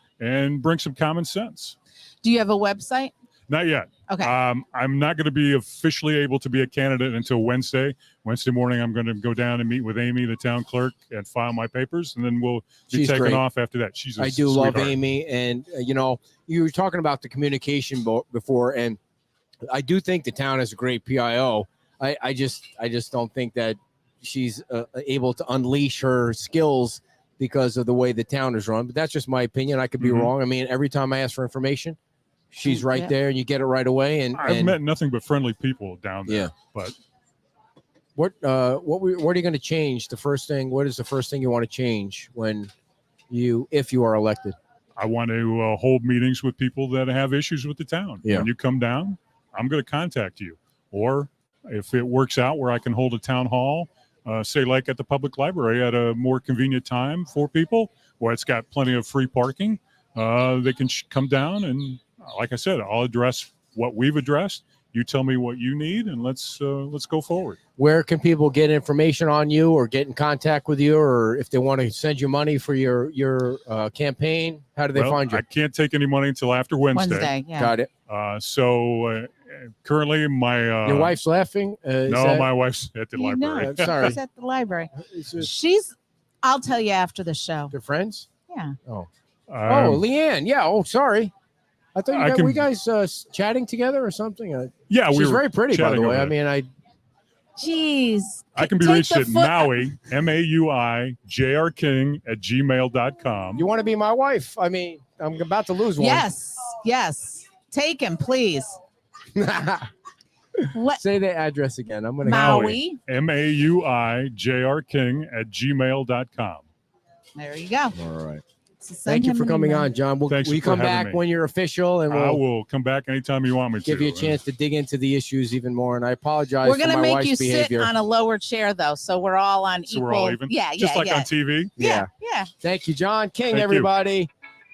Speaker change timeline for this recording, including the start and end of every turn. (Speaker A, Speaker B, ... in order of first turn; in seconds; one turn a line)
Speaker A: 0.2-1.8
Speaker B: 2.2-3.1
Speaker A: 3.5-15.0
Speaker B: 4.1-4.3
Speaker C: 12.9-13.4
Speaker C: 14.2-19.0
Speaker C: 19.7-32.0
Speaker A: 30.0-30.3
Speaker C: 32.5-34.8
Speaker B: 32.7-33.1
Speaker A: 34.3-36.9
Speaker C: 36.2-36.5
Speaker C: 38.1-42.7
Speaker C: 43.3-44.5
Speaker A: 45.0-67.6
Speaker C: 48.2-48.5
Speaker C: 67.8-75.4
Speaker A: 74.9-77.3
Speaker B: 76.9-77.7
Speaker C: 77.6-77.9
Speaker A: 78.1-81.2
Speaker C: 80.8-82.5
Speaker A: 82.0-84.2
Speaker B: 83.1-87.7
Speaker C: 83.6-84.2
Speaker C: 85.0-85.5
Speaker C: 87.7-88.3
Speaker B: 88.5-88.7
Speaker A: 89.5-90.0
Speaker C: 89.6-91.3
Speaker C: 91.9-96.7
Speaker A: 92.1-92.7
Speaker A: 94.9-96.3
Speaker B: 97.6-99.9
Speaker A: 98.5-103.7
Speaker C: 103.5-106.3
Speaker B: 106.0-108.8
Speaker C: 109.3-109.9
Speaker B: 110.7-111.0
Speaker C: 110.9-112.8
Speaker B: 112.2-113.0
Speaker A: 112.2-116.7
Speaker B: 117.3-118.0
Speaker C: 117.9-118.4
Speaker B: 118.8-119.9
Speaker C: 119.0-122.4
Speaker A: 120.3-121.2
Speaker A: 122.1-124.4
Speaker C: 123.8-127.9
Speaker B: 126.6-132.5
Speaker A: 129.9-131.7
Speaker C: 131.8-132.1
Speaker C: 132.6-134.3
Speaker A: 133.5-133.9